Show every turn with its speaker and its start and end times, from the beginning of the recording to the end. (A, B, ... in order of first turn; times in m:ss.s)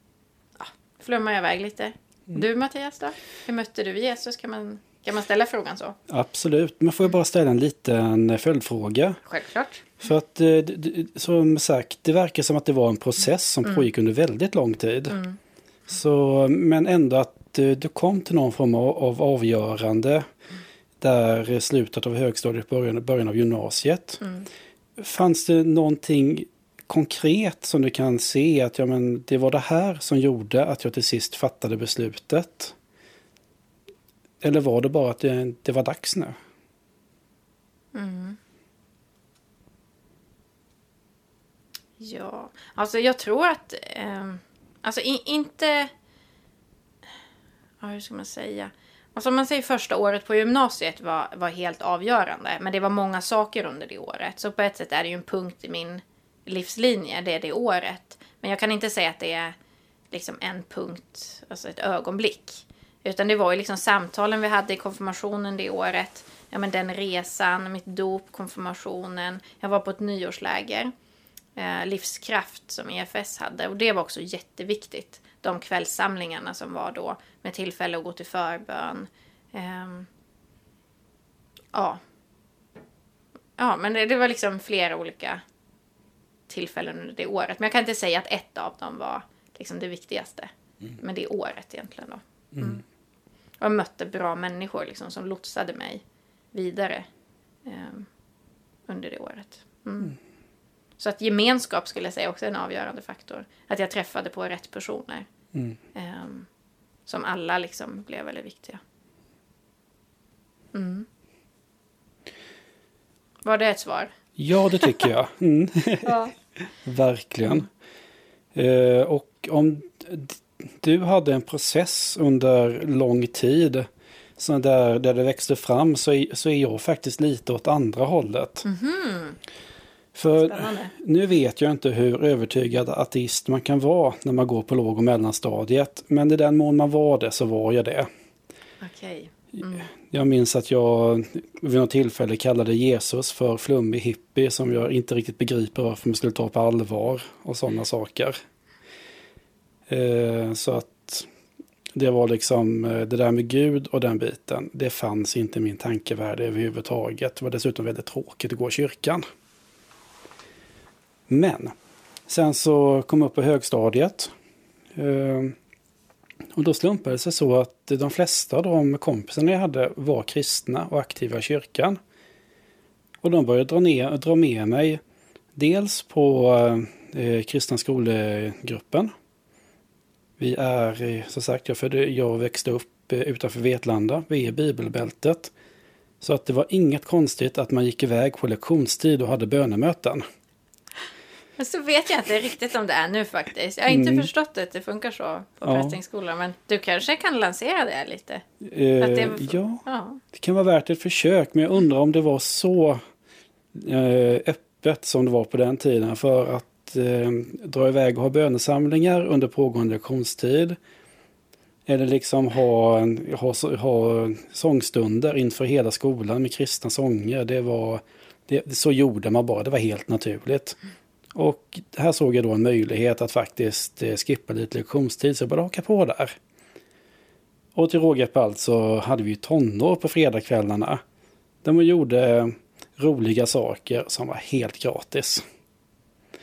0:00.6-0:06.0 A
0:06.1-0:09.2 B
0:09.2-0:09.9 A
0:10.0-0:15.2 B
0:15.1-0:15.4 A
0:15.9-0:20.3 B
0:21.0-0:24.2 B
0:25.0-0:32.8 B
0:34.4-0:36.4 B
0:37.9-0:38.4 A
0:42.0-0:45.9 A
0:47.8-0:59.6 A
1:00.1-1:10.9 A
1:11.6-1:20.1 A
1:21.7-1:22.0 A
1:23.6-1:25.4 A
1:26.5-1:32.8 A
1:33.6-1:37.1 A
1:37.6-1:38.1 A
1:38.9-1:40.2 A
1:41.0-1:45.3 A
1:46.0-1:46.5 A
1:47.1-1:48.8 A
1:50.7-1:51.1 A
1:53.4-1:54.1 A
1:54.4-1:57.7 B
1:54.7-1:55.1 A
1:56.0-1:56.3 A
1:58.5-2:08.7 B
2:08.6-2:09.4 A
2:10.2-2:18.1 B
2:10.3-2:10.9 A
2:18.8-2:19.9 A
2:19.9-2:28.4 B
2:29.9-2:31.3 B
2:31.9-2:39.2 B
2:41.3-2:41.8 B
2:42.3-2:44.3 B
2:45.0-2:45.6 B
2:46.6-2:52.0 B
2:53.2-2:55.0 B
2:55.6-2:59.1 B
3:00.4-3:05.5 B
3:06.2-3:10.2 B
3:11.6-3:18.4 A
3:13.9-3:14.3 B
3:15.6-3:16.0 B
3:18.6-3:23.0 B
3:19.0-3:20.2 A
3:23.7-3:30.8 B
3:31.9-3:40.8 B
3:41.3-3:46.4 B
3:47.8-3:51.0 B
3:51.6-3:55.4 B